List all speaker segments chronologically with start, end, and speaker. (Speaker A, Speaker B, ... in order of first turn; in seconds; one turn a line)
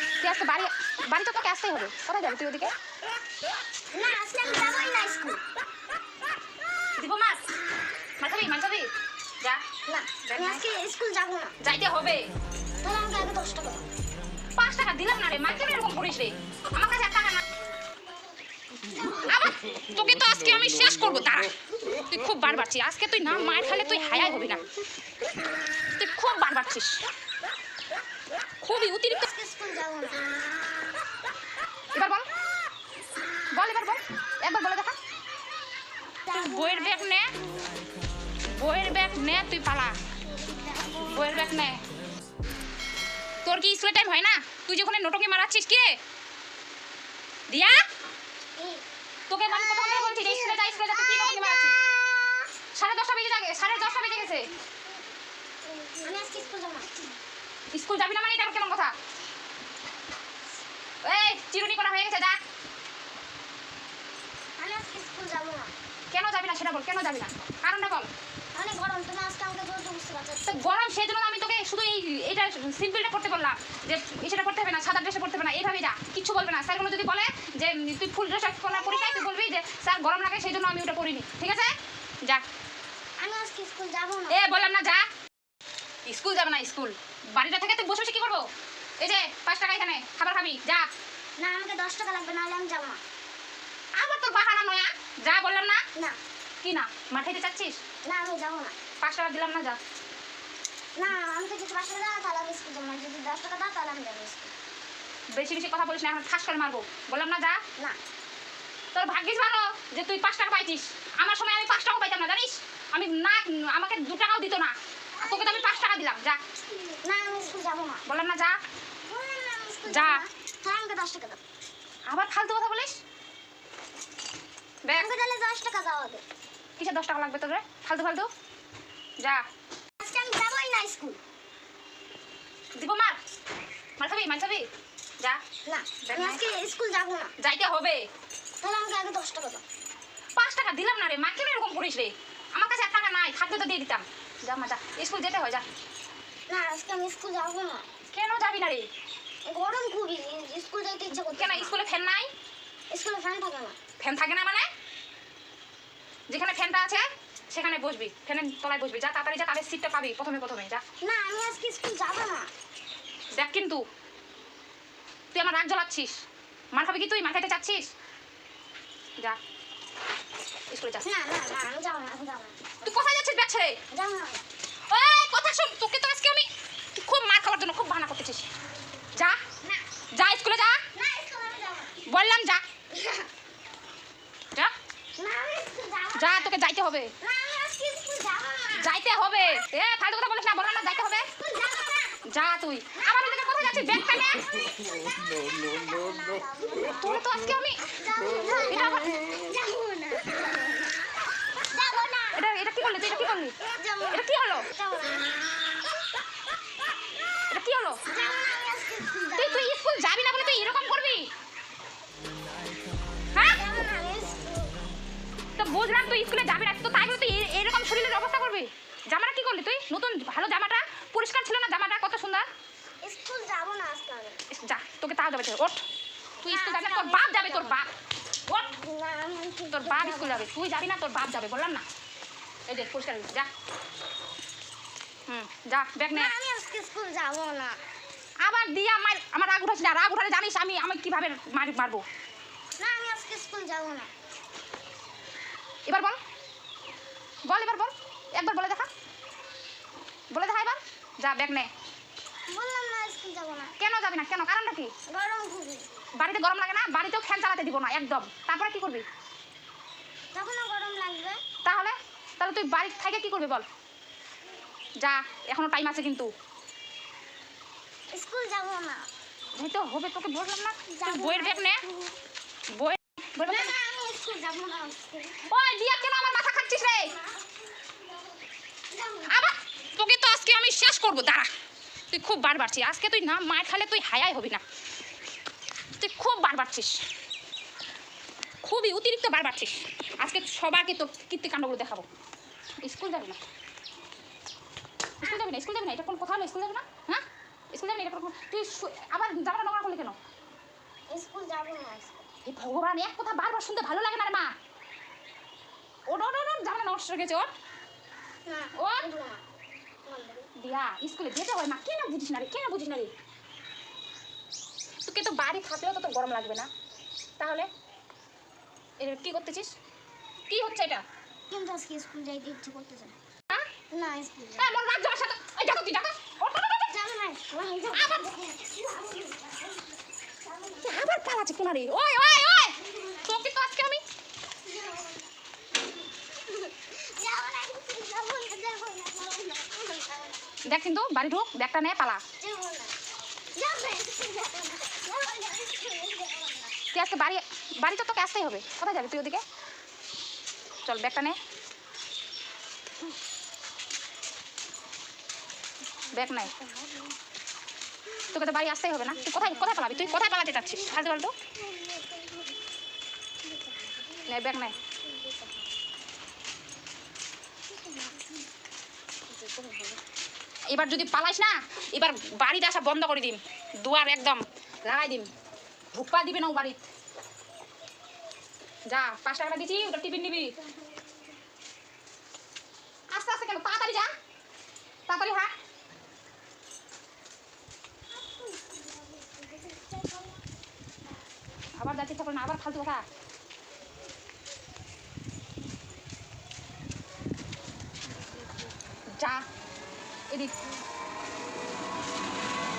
Speaker A: 0.2-2.7
Speaker B: 3.9-5.4
Speaker A: 7.0-7.4
Speaker A: 8.2-8.9
Speaker B: 9.8-11.6
Speaker A: 10.2-10.6
Speaker A: 11.6-12.3
Speaker B: 12.8-13.8
Speaker A: 14.6-17.4
Speaker B: 18.8-19.4
Speaker A: 19.2-24.6
Speaker A: 25.9-27.0
Speaker A: 28.6-29.2
Speaker B: 29.1-30.2
Speaker A: 31.9-32.3
Speaker A: 33.5-35.0
Speaker B: 36.2-37.7
Speaker A: 36.3-37.3
Speaker A: 38.5-40.0
Speaker B: 40.2-41.5
Speaker A: 41.1-41.8
Speaker A: 43.4-46.0
Speaker A: 47.5-47.8
Speaker B: 48.5-48.8
Speaker A: 49.3-51.7
Speaker B: 49.5-52.3
Speaker A: 52.7-54.5
Speaker B: 53.9-54.7
Speaker B: 55.6-57.0
Speaker A: 57.7-58.9
Speaker A: 61.0-62.4
Speaker B: 64.6-65.7
Speaker A: 66.1-68.1
Speaker B: 68.5-70.6
Speaker A: 70.4-82.4
Speaker B: 78.7-79.3
Speaker B: 83.2-84.4
Speaker A: 84.3-85.1
Speaker A: 86.0-88.5
Speaker A: 89.0-90.9
Speaker B: 91.4-93.0
Speaker A: 93.9-95.8
Speaker A: 96.6-97.8
Speaker B: 98.0-98.8
Speaker A: 99.0-99.8
Speaker B: 101.0-104.5
Speaker A: 105.3-107.6
Speaker A: 108.9-116.4
Speaker B: 115.2-115.9
Speaker B: 116.8-118.0
Speaker A: 118.0-118.6
Speaker B: 119.0-121.4
Speaker A: 119.9-120.2
Speaker A: 122.1-123.0
Speaker A: 124.8-125.1
Speaker B: 124.9-126.2
Speaker A: 126.8-128.3
Speaker B: 130.0-131.2
Speaker A: 132.8-133.2
Speaker A: 134.0-134.7
Speaker B: 135.6-137.3
Speaker A: 136.0-136.4
Speaker A: 137.4-138.1
Speaker B: 138.6-139.6
Speaker A: 140.3-145.7
Speaker B: 146.5-147.9
Speaker A: 148.1-148.9
Speaker B: 149.4-151.8
Speaker A: 151.3-152.3
Speaker B: 152.9-153.8
Speaker A: 154.0-154.7
Speaker A: 156.3-160.8
Speaker B: 161.0-162.5
Speaker A: 163.3-163.8
Speaker A: 165.3-166.2
Speaker A: 166.7-167.9
Speaker A: 170.7-171.0
Speaker B: 171.0-172.9
Speaker A: 172.8-173.8
Speaker B: 173.9-174.4
Speaker A: 174.9-178.4
Speaker A: 180.1-180.8
Speaker B: 180.9-182.0
Speaker A: 182.1-182.6
Speaker B: 182.9-183.3
Speaker B: 185.2-186.6
Speaker A: 186.1-187.1
Speaker B: 187.2-188.9
Speaker A: 188.8-191.3
Speaker B: 191.1-192.2
Speaker A: 192.2-194.4
Speaker B: 193.0-193.7
Speaker B: 195.5-197.2
Speaker A: 196.9-197.8
Speaker B: 197.9-200.8
Speaker A: 198.7-199.1
Speaker B: 201.5-202.4
Speaker A: 202.3-203.6
Speaker B: 203.7-205.4
Speaker A: 204.1-204.7
Speaker A: 207.5-208.0
Speaker B: 208.1-209.7
Speaker A: 209.3-211.3
Speaker A: 213.3-213.6
Speaker B: 213.4-214.9
Speaker A: 215.6-222.4
Speaker B: 223.0-224.4
Speaker A: 224.5-225.8
Speaker B: 226.4-227.8
Speaker A: 226.4-227.9
Speaker B: 228.5-230.5
Speaker A: 229.7-231.8
Speaker A: 232.7-233.5
Speaker A: 235.3-236.3
Speaker B: 236.1-237.8
Speaker A: 238.4-242.0
Speaker B: 242.8-244.1
Speaker A: 245.9-246.2
Speaker A: 247.4-248.9
Speaker A: 250.3-251.7
Speaker B: 252.5-253.7
Speaker A: 253.8-254.9
Speaker B: 255.1-255.8
Speaker A: 256.2-259.1
Speaker B: 260.3-261.4
Speaker A: 261.6-263.6
Speaker A: 265.0-266.3
Speaker B: 268.1-269.1
Speaker A: 269.6-271.8
Speaker B: 270.9-272.1
Speaker A: 272.7-273.7
Speaker B: 273.4-275.4
Speaker A: 275.4-277.1
Speaker B: 278.9-279.4
Speaker A: 279.3-281.5
Speaker A: 282.1-284.6
Speaker A: 286.0-287.0
Speaker A: 288.6-292.1
Speaker A: 292.8-293.4
Speaker A: 295.2-300.2
Speaker B: 301.1-302.3
Speaker A: 302.4-304.5
Speaker A: 306.1-307.5
Speaker B: 308.4-309.4
Speaker A: 308.8-309.1
Speaker B: 310.1-310.5
Speaker A: 310.6-313.1
Speaker A: 315.1-316.7
Speaker A: 317.4-317.7
Speaker A: 319.0-319.7
Speaker A: 320.4-321.0
Speaker B: 321.5-323.1
Speaker B: 323.9-324.8
Speaker A: 324.6-326.9
Speaker B: 326.9-329.7
Speaker A: 327.9-328.3
Speaker B: 330.5-330.9
Speaker A: 330.8-334.0
Speaker B: 334.6-335.3
Speaker B: 336.1-340.6
Speaker A: 340.6-342.2
Speaker B: 342.4-342.9
Speaker B: 343.5-346.7
Speaker A: 346.9-349.4
Speaker A: 350.8-351.4
Speaker B: 356.0-357.1
Speaker A: 356.1-356.5
Speaker A: 358.3-361.3
Speaker B: 359.0-362.5
Speaker B: 363.4-365.7
Speaker A: 364.3-364.7
Speaker B: 367.7-368.4
Speaker B: 369.3-370.0
Speaker A: 370.7-375.3
Speaker A: 375.9-376.8
Speaker A: 378.9-380.5
Speaker B: 380.0-381.2
Speaker A: 383.1-384.1
Speaker A: 385.1-385.5
Speaker B: 388.1-390.4
Speaker A: 391.8-393.0
Speaker A: 399.1-399.4